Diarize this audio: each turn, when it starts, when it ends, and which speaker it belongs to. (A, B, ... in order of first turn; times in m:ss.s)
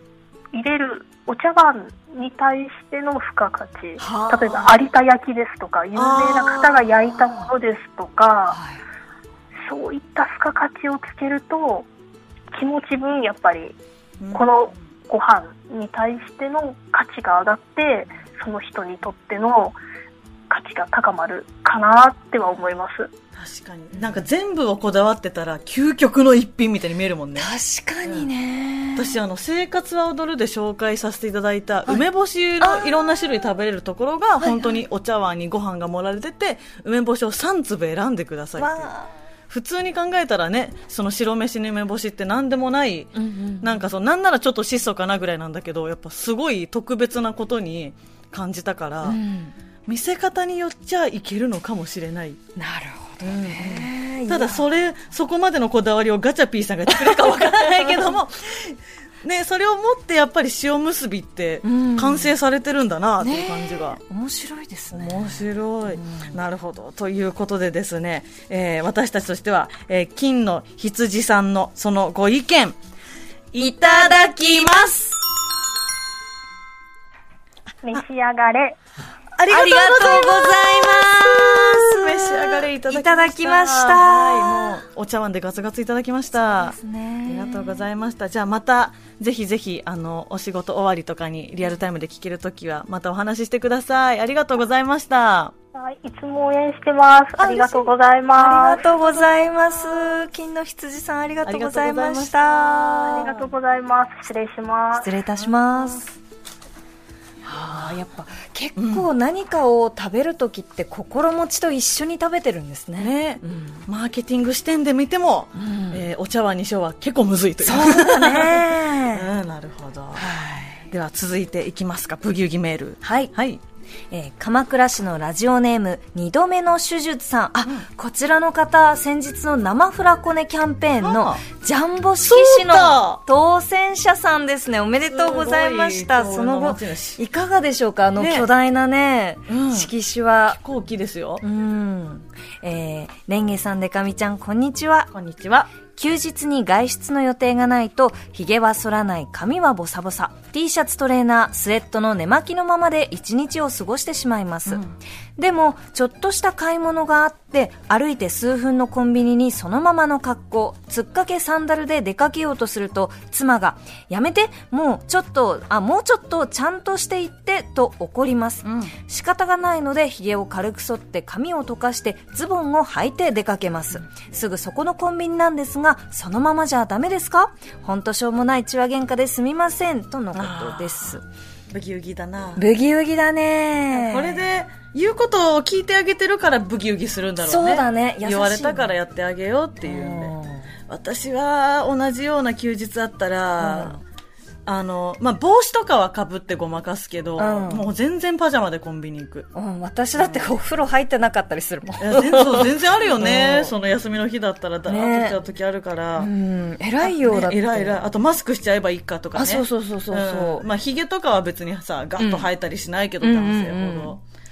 0:00.5-0:08.6 A
0:04.0-0:04.7 B
0:06.0-0:06.9 C
0:08.5-0:08.8 B
0:09.6-0:11.9 A
0:12.5-0:13.8 A
0:14.2-0:14.5 C
0:14.3-0:19.8 A
0:20.5-0:23.1 A
0:23.4-0:27.5 C
0:27.4-0:29.2 B
0:29.0-0:38.9 C
0:32.6-0:32.9 B
0:34.4-0:34.8 B
0:38.6-0:39.2 B
0:39.5-0:49.2 C
0:43.2-0:43.8 B
0:49.0-0:49.5 B
0:49.9-0:52.4 C
0:52.6-0:54.7 B
0:53.2-1:04.0 C
0:56.9-0:58.2 B
1:01.6-1:02.4 B
1:03.2-1:06.4 B
1:04.9-1:12.8 C
1:13.5-1:15.2 B
1:13.6-1:14.9 C
1:17.8-1:18.8 A
1:19.4-1:26.8 C
1:19.5-1:24.8 B
1:26.3-1:27.8 B
1:27.3-1:35.5 C
1:35.7-1:39.2 A
1:37.4-1:37.9 C
1:38.4-1:43.3 B
1:41.4-1:43.4 C
1:43.0-1:45.1 A
1:45.0-1:46.1 B
1:45.4-1:46.1 C
1:47.4-1:53.8 B
1:48.8-1:49.1 C
1:53.0-2:00.3 C
1:55.6-1:56.0 B
1:57.6-1:59.3 B
2:00.2-2:00.9 B
2:00.9-2:03.6 C
2:03.0-2:03.3 B
2:04.1-2:20.6 B
2:11.0-2:11.4 C
2:12.2-2:13.2 C
2:15.1-2:17.2 C
2:18.2-2:18.5 C
2:19.5-2:19.9 C
2:20.5-2:21.4 C
2:21.4-2:25.1 B
2:25.1-2:25.7 C
2:25.9-2:34.8 B
2:34.7-2:35.0 C
2:35.4-3:01.2 B
2:48.6-2:49.0 C
3:00.3-3:01.2 C
3:01.7-3:02.6 C
3:02.6-3:04.5 B
3:03.9-3:10.3 C
3:07.4-3:08.9 B
3:09.8-3:10.7 B
3:10.9-3:14.0 C
3:13.6-3:14.0 B
3:14.7-3:19.5 C
3:17.4-3:17.9 B
3:19.5-3:23.8 B
3:20.2-3:20.5 C
3:22.0-3:26.3 C
3:24.9-3:25.4 B
3:26.2-3:28.0 B
3:27.0-3:34.2 C
3:29.4-3:30.7 B
3:32.2-3:32.5 B
3:33.2-3:34.2 B